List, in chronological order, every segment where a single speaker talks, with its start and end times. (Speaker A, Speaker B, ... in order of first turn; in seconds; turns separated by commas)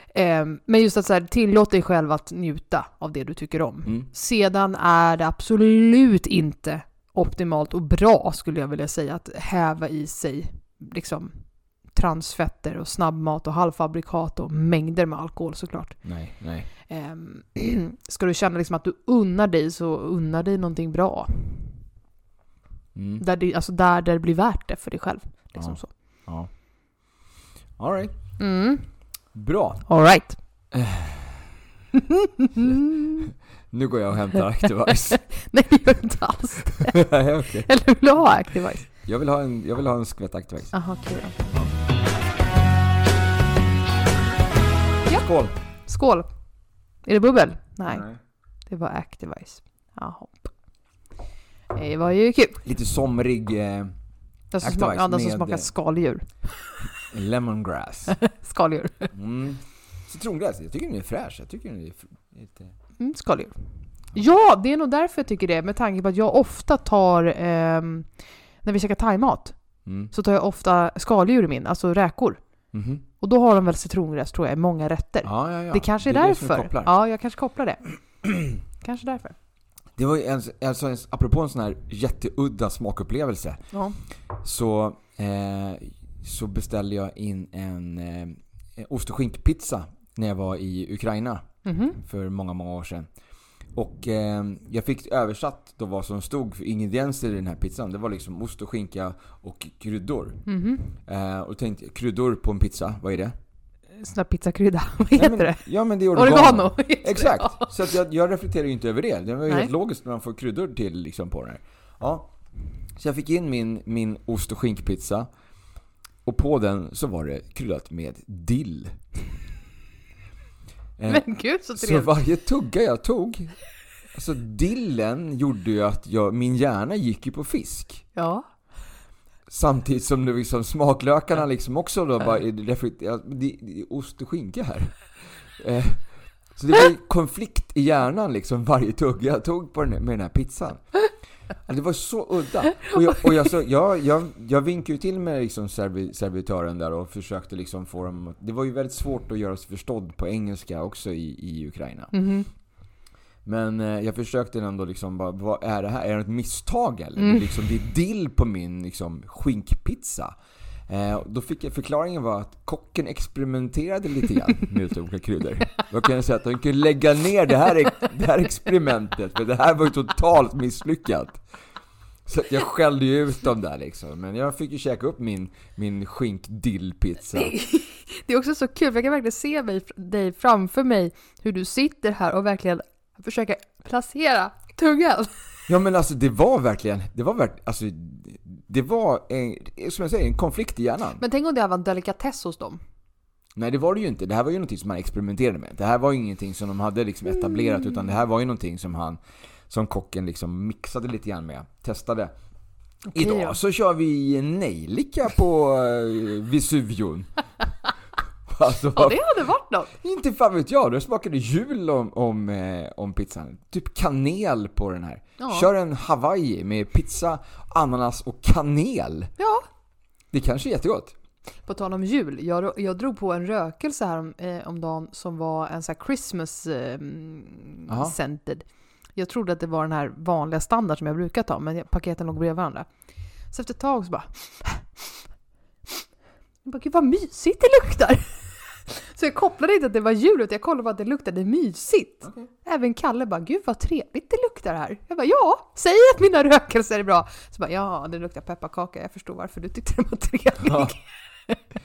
Speaker A: 0.1-11.3, Speaker A: 11.9-16.0, Speaker B: 16.0-16.7, Speaker A: 16.9-21.8, Speaker B: 22.9-23.2, Speaker A: 23.2-25.9, Speaker B: 25.6-26.5, Speaker B: 27.8-28.1, Speaker A: 28.4-28.9, Speaker B: 29.3-29.9, Speaker A: 29.9-30.4, Speaker B: 30.7-31.5, Speaker A: 31.9-33.3, Speaker B: 32.6-35.2, Speaker A: 34.9-38.9, Speaker B: 36.8-37.7, Speaker B: 39.0-40.7, Speaker A: 40.7-41.4, Speaker B: 45.1-45.5, Speaker A: 45.9-46.3, Speaker A: 47.0-48.1, Speaker B: 47.9-48.2, Speaker A: 48.7-50.5, Speaker A: 51.7-52.6, Speaker B: 52.6-53.9, Speaker A: 54.5-56.5, Speaker B: 54.6-55.7, Speaker B: 57.1-58.2, Speaker A: 58.1-59.1, Speaker B: 59.1-62.7, Speaker A: 63.0-63.6, Speaker A: 64.1-68.1, Speaker A: 68.6-69.5, Speaker B: 69.9-70.1, Speaker A: 70.1-72.4, Speaker B: 72.7-73.0, Speaker A: 73.2-77.9, Speaker B: 75.2-76.9, Speaker B: 78.2-78.5, Speaker A: 78.8-79.3, Speaker B: 80.0-83.6, Speaker B: 84.4-91.5, Speaker A: 91.7-92.0, Speaker B: 92.0-93.1, Speaker B: 93.8-100.4, Speaker A: 100.5-101.0, Speaker B: 101.1-103.3, Speaker A: 104.0-107.7, Speaker B: 105.2-112.3, Speaker B: 113.0-115.3, Speaker B: 116.2-119.0, Speaker B: 121.0-123.5, Speaker A: 121.1-122.2, Speaker B: 124.1-128.1, Speaker A: 128.2-128.4, Speaker B: 129.5-135.1, Speaker B: 135.6-140.9, Speaker B: 141.7-152.1, Speaker A: 152.1-152.5, Speaker B: 153.4-160.3, Speaker A: 157.2-157.4, Speaker B: 160.9-171.4, Speaker B: 172.3-177.6, Speaker A: 177.4-185.4, Speaker B: 185.7-191.2, Speaker A: 191.2-192.8, Speaker B: 193.6-202.3, Speaker A: 203.1-203.6, Speaker B: 203.1-207.3, Speaker B: 208.5-209.3, Speaker A: 208.9-209.9, Speaker B: 210.0-219.3, Speaker A: 215.4-215.7, Speaker A: 219.4-219.7, Speaker B: 220.3-221.2, Speaker A: 221.7-228.7, Speaker B: 227.9-228.2, Speaker A: 229.2-232.9, Speaker A: 233.5-235.2, Speaker A: 236.7-251.6, Speaker B: 250.6-250.9